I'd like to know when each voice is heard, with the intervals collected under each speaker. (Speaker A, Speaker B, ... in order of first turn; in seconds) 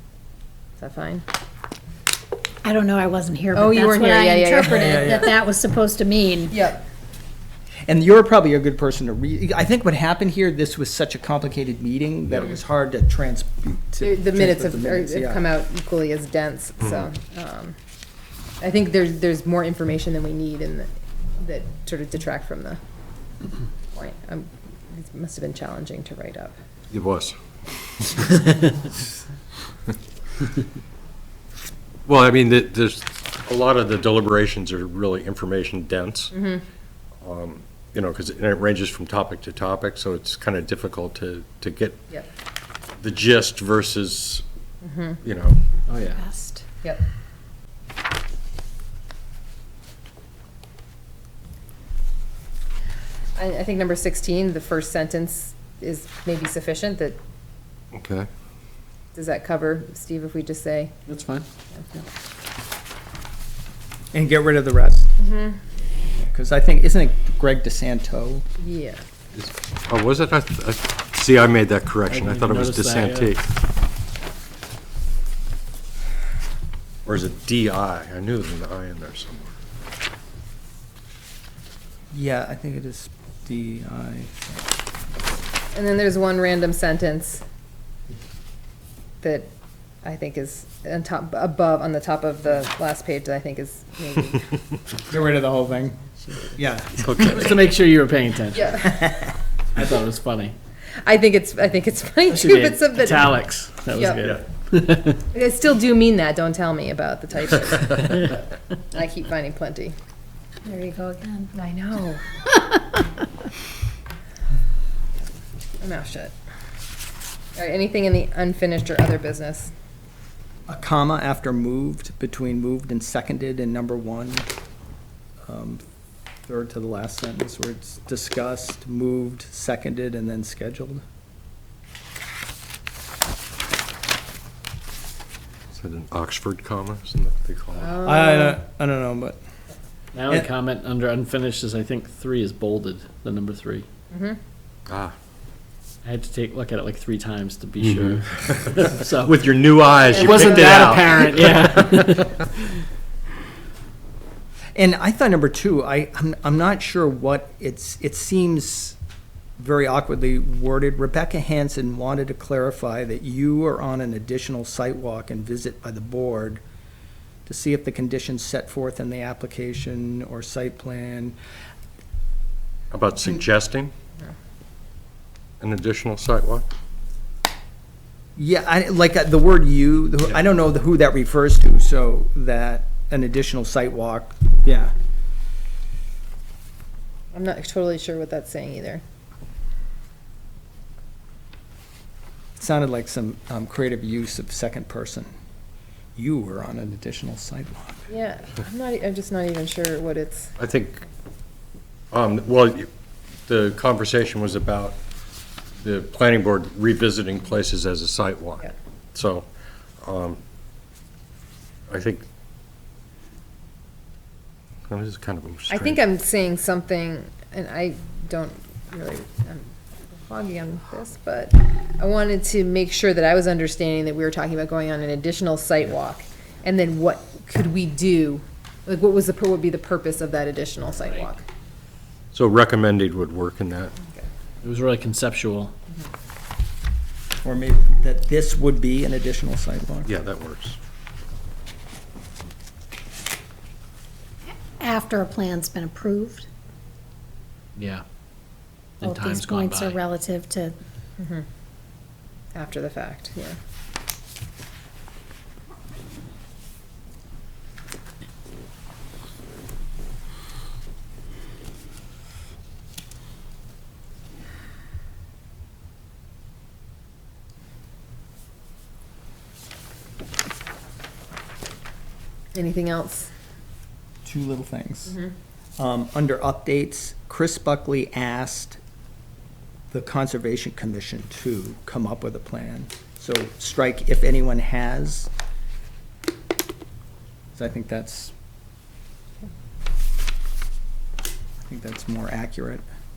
Speaker A: 0.8-1.2, 3.5-5.3, 6.5-6.9, 14.0-17.8, 18.6-22.8, 23.9-26.6, 36.3-36.6, 44.8-45.2, 53.4-57.2, 59.1-60.9, 65.2-65.6, 68.6-69.0, 85.7-87.4, 89.2-89.5, 90.0-94.4, 98.6-99.1, 101.0-103.3, 103.9-104.2, 105.3-108.3, 108.9-110.0, 111.5-112.2, 115.8-116.3, 117.5-119.7, 137.8-138.6, 144.1-144.4, 150.1-151.2, 187.3-189.0, 198.1-200.5, 215.7-231.4, 251.2-251.4, 252.6-253.6, 272.6-273.3
Speaker B: 2.6-6.6, 46.1-46.6, 110.6-111.5, 244.8-246.5, 249.0-250.8
Speaker C: 4.6-5.3, 7.9-15.5, 64.1-65.1, 66.2-68.5, 82.1-84.7, 95.1-96.0, 96.5-96.9, 120.7-124.5, 125.4-125.8, 126.5-131.0, 138.0-139.4, 154.8-159.0, 159.6-166.6, 167.5-171.4, 178.4-184.9, 192.6-195.3, 196.2-198.1, 237.4-240.1, 274.2-275.2, 275.8-278.8, 279.9-285.3, 287.6-288.3, 291.7-292.8
Speaker D: 16.8-17.1, 26.9-27.4, 32.1-36.3, 37.2-42.1, 43.0-44.4, 45.2-45.6, 57.9-58.3, 69.3-73.4, 77.1-79.5, 97.0-97.7, 135.8-138.0, 144.9-145.1, 147.8-151.4, 172.9-173.9, 175.6-176.7, 200.6-201.0, 202.1-202.9, 203.5-205.0, 205.8-209.5, 210.0-210.4, 211.9-212.2, 214.9-216.0, 232.3-233.9, 240.1-240.8
Speaker E: 45.9-46.2, 61.1-62.0, 72.1-73.3, 97.2-98.8, 99.7-100.5, 102.3-105.2, 140.1-143.9, 146.0-149.4, 150.1-152.4, 231.0-231.3, 234.6-235.7, 247.8-248.0, 249.0-250.0